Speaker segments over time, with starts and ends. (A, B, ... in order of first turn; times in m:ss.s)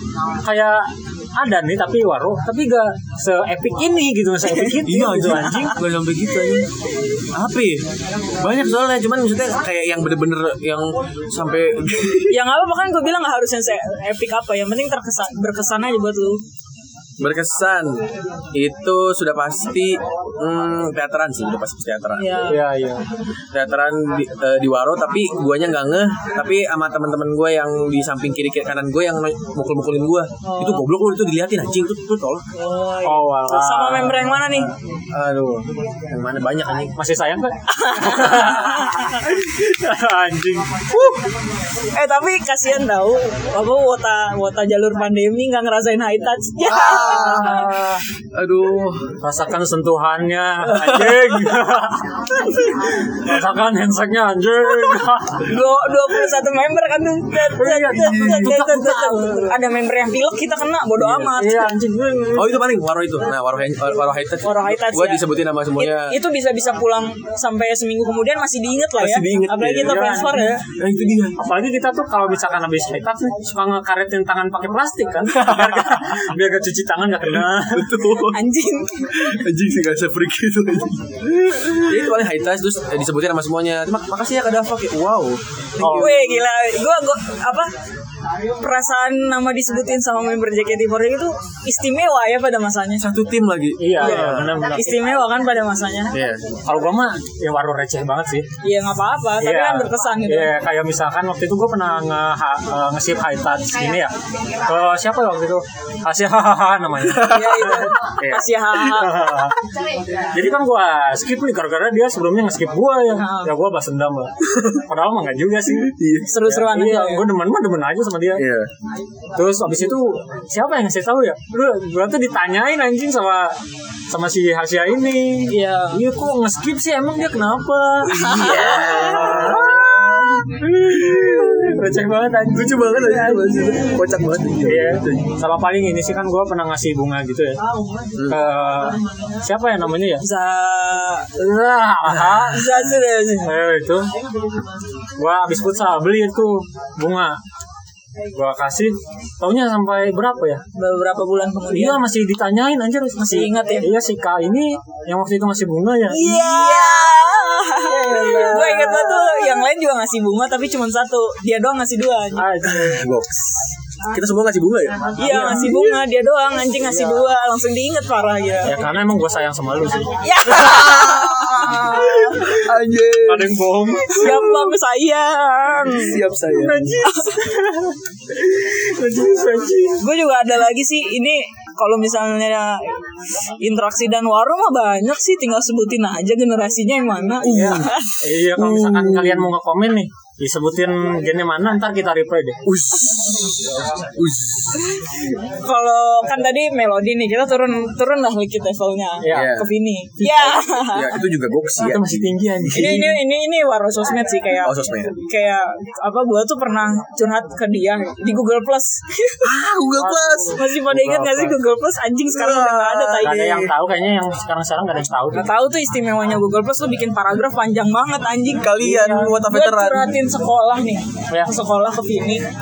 0:00.4-0:05.8 A
0:04.8-0:06.7 B
0:07.3-0:12.4 B
0:12.3-0:16.4 C
0:17.2-0:22.4 B
0:22.2-0:22.6 C
0:22.5-0:23.1 A
0:23.5-0:32.4 B
0:30.4-0:30.8 C
0:32.6-0:34.7 C
0:33.0-0:34.7 A
0:35.1-0:37.0 B
0:37.0-0:40.8 A
0:37.7-0:39.2 C
0:41.8-0:47.8 C
0:46.6-0:47.8 B
0:47.2-0:48.0 A
0:48.3-0:49.2 B
0:49.2-0:55.6 A
0:50.7-0:51.4 B
0:55.4-1:01.8 C
0:57.5-0:59.6 A
0:57.9-0:58.4 B
1:01.0-1:02.7 A
1:02.3-1:06.2 B
1:04.4-1:10.6 C
1:09.0-1:10.1 B
1:09.8-1:10.5 A
1:10.7-1:11.4 B
1:11.4-1:18.1 A
1:15.3-1:16.1 B
1:17.7-1:18.4 B
1:18.2-1:19.4 C
1:19.1-1:26.2 B
1:25.8-1:26.2 A
1:25.9-1:27.7 C
1:28.6-1:33.1 C
1:33.0-1:34.6 B
1:33.8-1:35.1 A
1:34.0-1:36.2 C
1:36.1-1:36.6 B
1:36.6-1:38.5 A
1:38.6-1:40.5 C
1:39.4-1:49.6 A
1:47.2-1:49.3 C
1:50.3-1:55.9 A
1:53.2-1:53.5 C
1:54.5-1:54.8 B
1:55.7-1:56.3 B
1:56.3-1:57.3 C
1:56.4-1:58.5 A
1:58.4-1:58.7 B
1:59.4-2:03.6 A
2:04.1-2:13.6 A
2:05.5-2:06.0 C
2:08.1-2:11.8 B
2:08.2-2:09.2 C
2:12.5-2:15.3 B
2:14.6-2:17.6 A
2:18.2-2:18.4 B
2:18.3-2:20.2 A
2:20.2-2:21.3 C
2:21.4-2:24.1 A
2:22.4-2:23.5 C
2:25.2-2:27.4 A
2:28.3-2:30.6 A
2:30.8-2:32.0 C
2:31.7-2:36.5 A
2:33.2-2:33.9 C
2:36.1-2:42.5 C
2:37.8-2:39.5 A
2:42.4-2:43.1 A
2:42.7-2:45.8 B
2:45.2-2:48.8 C
2:45.2-2:45.9 A
2:46.9-2:47.3 A
2:48.6-2:50.3 A
2:50.2-2:52.6 C
2:50.5-2:54.7 B
2:53.2-2:54.5 A
2:54.1-2:56.2 C
2:55.8-2:57.0 B
2:56.5-3:00.0 A
2:57.0-2:57.5 C
3:00.0-3:08.2 C
3:07.4-3:07.9 B
3:07.4-3:12.6 A
3:08.5-3:09.5 B
3:12.6-3:15.1 B
3:15.4-3:21.2 C
3:19.2-3:19.6 A
3:19.3-3:19.7 B
3:20.2-3:20.5 A
3:20.5-3:22.4 B
3:21.8-3:23.2 A
3:22.7-3:29.5 C
3:24.6-3:25.2 B
3:29.4-3:30.6 B
3:30.0-3:31.6 A
3:30.5-3:33.6 C
3:32.3-3:33.7 B
3:33.2-3:35.5 A
3:35.3-3:42.5 C
3:38.6-3:40.2 B
3:38.8-3:39.3 A
3:41.3-3:41.6 A